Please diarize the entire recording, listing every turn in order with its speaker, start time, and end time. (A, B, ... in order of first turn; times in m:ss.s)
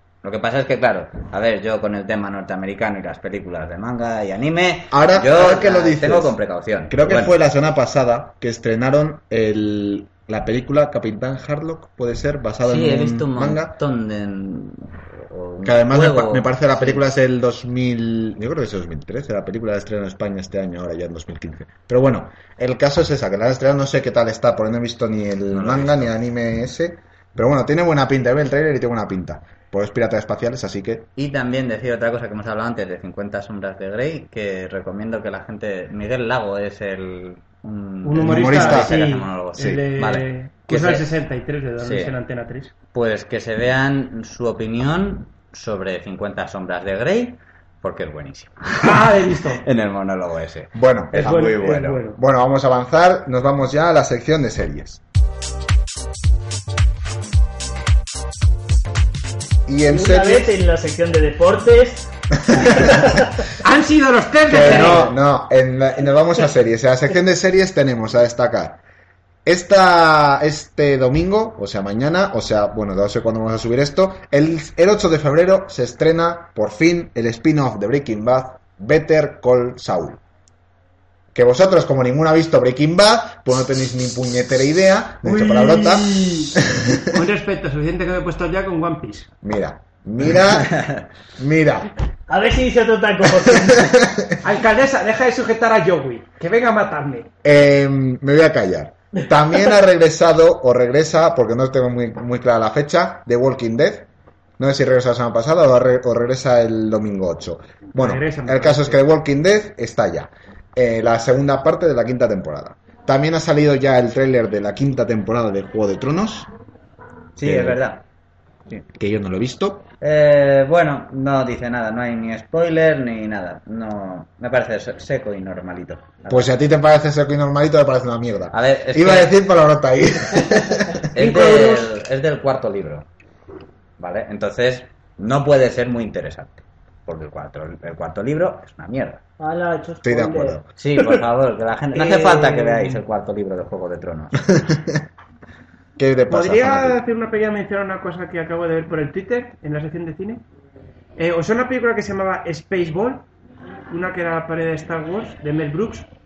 0:00.2-0:07.3 A
0:04.9-0:06.4 B
0:06.9-0:13.8 B
0:12.6-0:17.0 A
0:15.6-0:31.1 B
0:25.5-0:26.1 A
0:31.2-0:41.1 A
0:38.0-0:42.7 C
0:38.2-0:38.9 B
0:41.8-0:42.1 A
0:42.9-0:52.0 A
0:48.8-0:49.6 C
0:50.7-0:55.0 B
0:51.1-0:52.2 C
0:59.7-1:00.6 B
0:59.8-1:03.3 D
1:02.5-1:03.1 B
1:03.6-1:05.1 C
1:04.5-1:08.8 B
1:09.4-1:20.2 B
1:21.3-1:27.1 B
1:25.2-1:29.3 C
1:29.4-1:31.9 B
1:30.6-1:31.0 A
1:32.3-1:34.0 D
1:33.4-1:34.4 B
1:34.4-1:37.3 C
1:37.4-1:44.1 B
1:44.6-1:56.5 B
1:48.0-1:49.0 C
1:57.4-1:58.0 A
1:57.4-1:57.8 B
1:58.9-1:59.8 B
2:00.0-2:06.5 A
2:06.3-2:11.0 B
2:08.5-2:09.3 A
2:11.1-2:13.0 A
2:11.2-2:11.8 D
2:14.0-2:19.2 A
2:19.4-2:21.2 D
2:20.0-2:20.7 B
2:20.8-2:24.5 A
2:21.9-2:22.9 D
2:24.5-2:25.0 B
2:26.0-2:27.0 B
2:26.3-2:30.4 C
2:31.2-2:33.2 C
2:33.9-2:36.1 C